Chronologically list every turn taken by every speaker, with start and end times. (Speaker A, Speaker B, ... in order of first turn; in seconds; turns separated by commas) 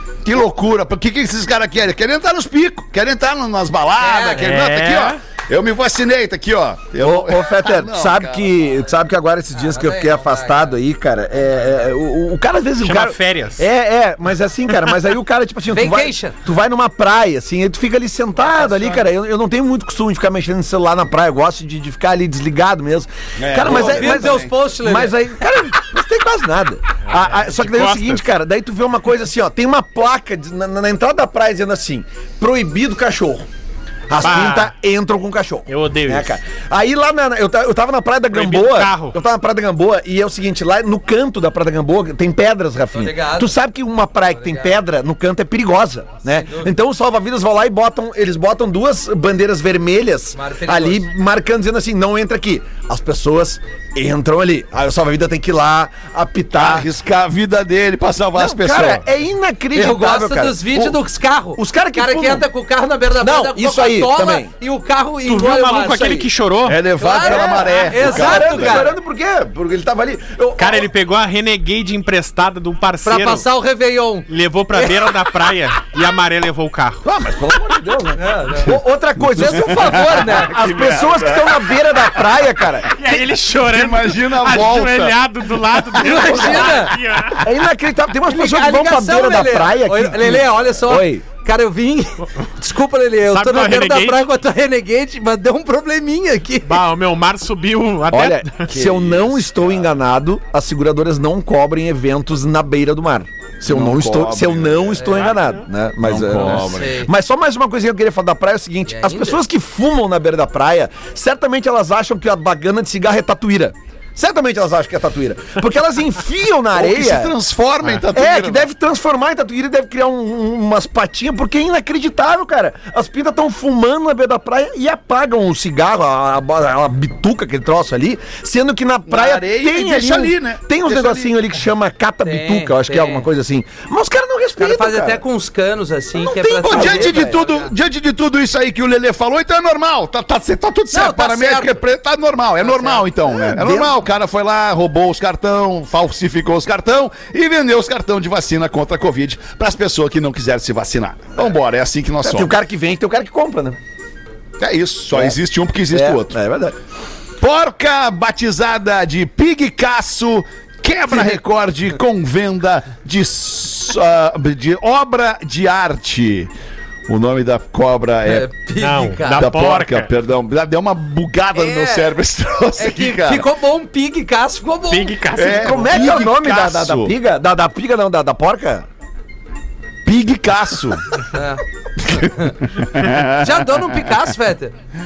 Speaker A: 0.2-8.5, Speaker B: 4.0-4.4, Speaker C: 4.4-5.2, Speaker D: 7.0-33.5, Speaker B: 9.5-10.8, Speaker C: 12.8-13.7, Speaker B: 15.7-16.4, Speaker B: 18.4-19.1, Speaker A: 23.4-24.5, Speaker B: 23.6-25.4, Speaker C: 27.1-28.2, Speaker D: 34.1-56.9, Speaker C: 34.1-34.7, Speaker C: 35.7-36.4, Speaker C: 38.3-39.2, Speaker B: 42.9-43.5, Speaker B: 44.3-44.8, Speaker B: 46.3-46.7, Speaker B: 50.3-51.1, Speaker A: 56.5-59.0, Speaker D: 58.3-61.0, Speaker B: 59.7-66.3, Speaker D: 61.6-62.5, Speaker D: 63.2-64.5, Speaker C: 65.3-66.8, Speaker A: 66.7-68.8, Speaker B: 67.0-68.9, Speaker D: 67.2-70.9, Speaker C: 70.6-73.5, Speaker B: 73.0-75.4, Speaker C: 74.3-77.0, Speaker D: 77.0-83.0, Speaker B: 78.2-78.8, Speaker B: 79.4-80.6, Speaker A: 79.4-82.2, Speaker C: 83.0-87.5, Speaker A: 83.1-85.2, Speaker B: 86.0-86.9, Speaker A: 86.0-86.6, Speaker D: 87.4-91.2, Speaker B: 88.3-96.8, Speaker C: 93.3-94.3, Speaker C: 96.7-98.7, Speaker D: 98.1-117.3, Speaker A: 98.7-99.9, Speaker A: 103.7-105.2, Speaker B: 105.0-105.4, Speaker A: 106.0-106.9, Speaker B: 106.3-107.1, Speaker B: 108.9-109.4, Speaker A: 116.7-118.7, Speaker D: 118.1-135.2, Speaker A: 129.1-131.4, Speaker B: 132.2-133.3, Speaker B: 134.6-137.7, Speaker D: 136.2-137.4, Speaker A: 136.3-152.5, Speaker B: 140.9-141.8, Speaker B: 142.6-143.1, Speaker D: 143.3-143.9, Speaker D: 152.2-153.8, Speaker A: 154.6-156.4, Speaker D: 155.1-155.4, Speaker D: 155.9-156.8, Speaker A: 157.4-166.5, Speaker D: 161.1-161.4, Speaker A: 167.1-168.5, Speaker B: 168.2-169.5, Speaker C: 168.8-170.1, Speaker A: 169.4-173.5, Speaker B: 171.5-172.2, Speaker B: 172.8-175.2, Speaker C: 174.9-176.2, Speaker A: 175.3-177.1, Speaker D: 175.4-178.9, Speaker A: 180.1-181.2, Speaker B: 181.3-182.6, Speaker A: 182.0-184.1, Speaker B: 183.3-184.7